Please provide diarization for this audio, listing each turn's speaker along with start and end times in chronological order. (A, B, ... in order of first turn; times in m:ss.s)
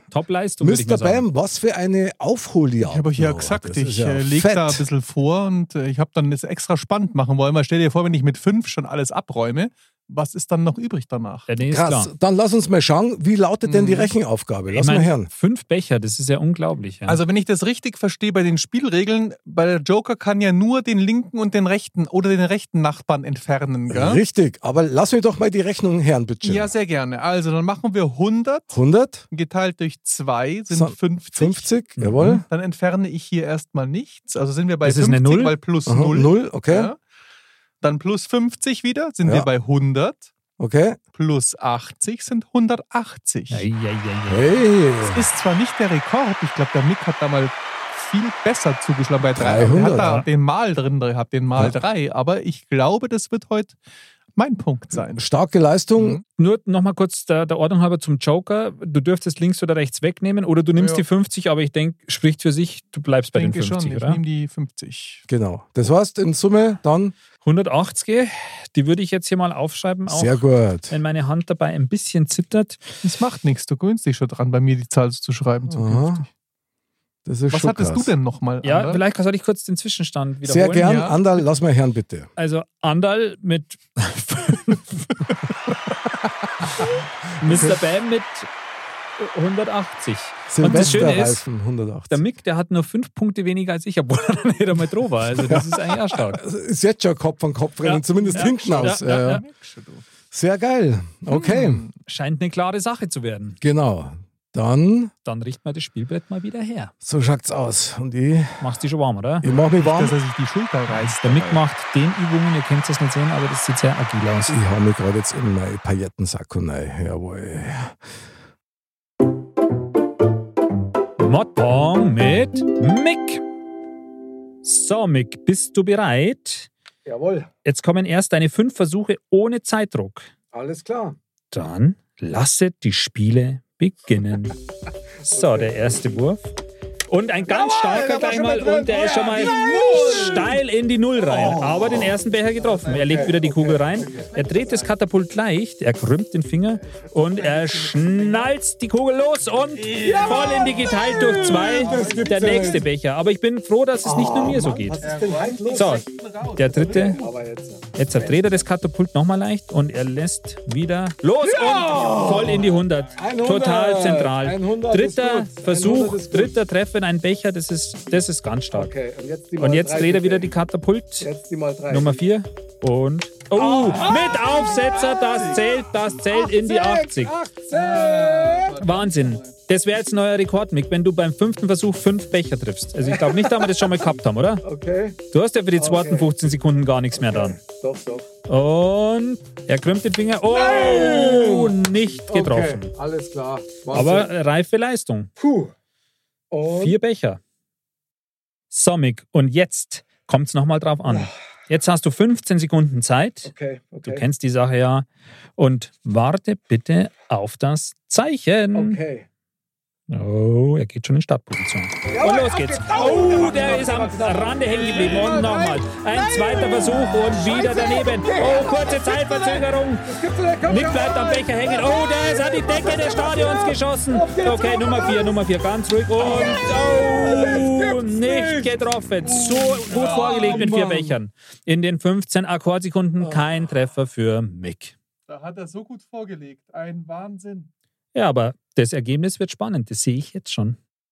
0:00.1-0:01.2 A
0:00.6-0:04.8 B
0:02.8-0:11.5 C
0:11.5-0:12.1 A
0:11.6-0:15.3 B
0:13.6-0:14.1 C
0:14.7-0:17.2 A
0:17.1-0:24.2 C
0:23.9-0:26.7 B
0:26.4-0:28.8 C
0:28.7-0:29.3 B
0:29.3-0:37.0 C
0:30.7-0:32.4 B
0:32.0-0:32.3 A
0:34.8-0:35.5 A
0:35.8-0:36.9 B
0:37.8-0:40.3 C
0:40.6-0:41.0 B
0:41.1-0:43.6 C
0:43.5-0:44.6 A
0:44.3-0:45.2 B
0:45.1-0:53.8 C
0:49.4-0:50.2 B
0:49.9-0:50.3 A
0:54.4-0:55.3 C
0:55.2-0:56.2 B
0:56.0-0:56.2 C
0:56.4-1:04.2 A
1:00.8-1:01.0 C
1:03.3-1:05.2 C
1:05.3-1:07.1 B
1:07.4-1:12.9 A
1:10.1-1:10.9 B
1:13.0-1:16.3 C
1:15.7-1:16.2 B
1:17.2-1:18.1 B
1:17.5-1:19.0 C
1:18.6-1:21.0 A
1:20.4-1:22.3 B
1:20.8-1:21.2 C
1:22.4-1:25.1 A
1:27.4-1:28.5 A
1:29.2-1:31.4 A
1:30.5-1:32.2 B
1:30.6-1:31.2 C
1:32.1-1:36.4 A
1:36.2-1:39.4 B
1:37.8-1:39.4 A
1:38.1-1:40.0 C
1:40.3-1:41.8 B
1:41.3-1:41.9 C
1:42.0-1:43.6 A
1:43.6-1:45.1 B
1:45.2-1:46.9 A
1:47.0-1:48.6 B
1:48.6-1:49.4 A
1:49.4-1:50.2 B
1:49.4-1:51.6 C
1:51.1-1:54.6 A
1:54.5-1:58.0 B
2:01.2-2:03.4 A
2:04.6-2:06.7 A
2:07.0-2:07.5 B
2:07.6-2:10.3 A
2:10.5-2:11.2 B
2:11.5-2:14.6 A
2:15.2-2:16.5 A
2:15.2-2:15.8 B
2:17.1-2:35.0 A
2:17.4-2:20.6 B
2:21.2-2:22.2 B
2:22.6-2:23.4 C
2:22.9-2:24.3 B
2:24.0-2:24.9 C
2:27.0-2:28.5 C
2:29.8-2:30.6 C
2:29.9-2:32.9 B
2:31.5-2:32.7 C
2:34.0-2:36.0 B
2:35.0-2:37.3 C
2:35.7-2:37.2 A
2:36.8-2:38.5 B
2:37.9-2:48.9 A
2:41.4-2:42.6 B
2:42.6-2:43.0 C
2:43.2-2:46.5 B
2:48.7-2:50.5 B
2:49.6-2:51.3 A
2:51.2-2:52.2 B
2:51.9-2:57.3 A
2:53.6-2:55.0 B
2:53.8-2:55.6 C
2:56.3-2:58.8 B
2:57.7-2:59.5 C
2:58.8-3:04.6 A
3:03.0-3:04.0 B
3:04.6-3:05.2 B
3:05.3-3:07.6 A
3:05.8-3:06.3 B
3:07.1-3:08.3 B
3:08.5-3:12.9 A
3:10.5-3:11.8 B
3:12.3-3:14.3 B
3:13.9-3:15.3 A
3:15.4-3:15.7 B
3:16.5-3:17.0 B
3:16.6-3:17.4 A
3:18.7-3:23.5 A
3:21.0-3:21.3 B
3:23.4-3:24.2 B
3:24.0-3:29.0 A
3:28.7-3:29.3 B
3:30.1-3:40.1 A
3:32.1-3:45.4 B
3:40.6-3:54.9 A
3:46.2-3:48.7 B
3:49.2-3:51.2 B
3:49.9-3:50.8 C
3:55.3-3:57.7 C
3:58.1-4:00.8 A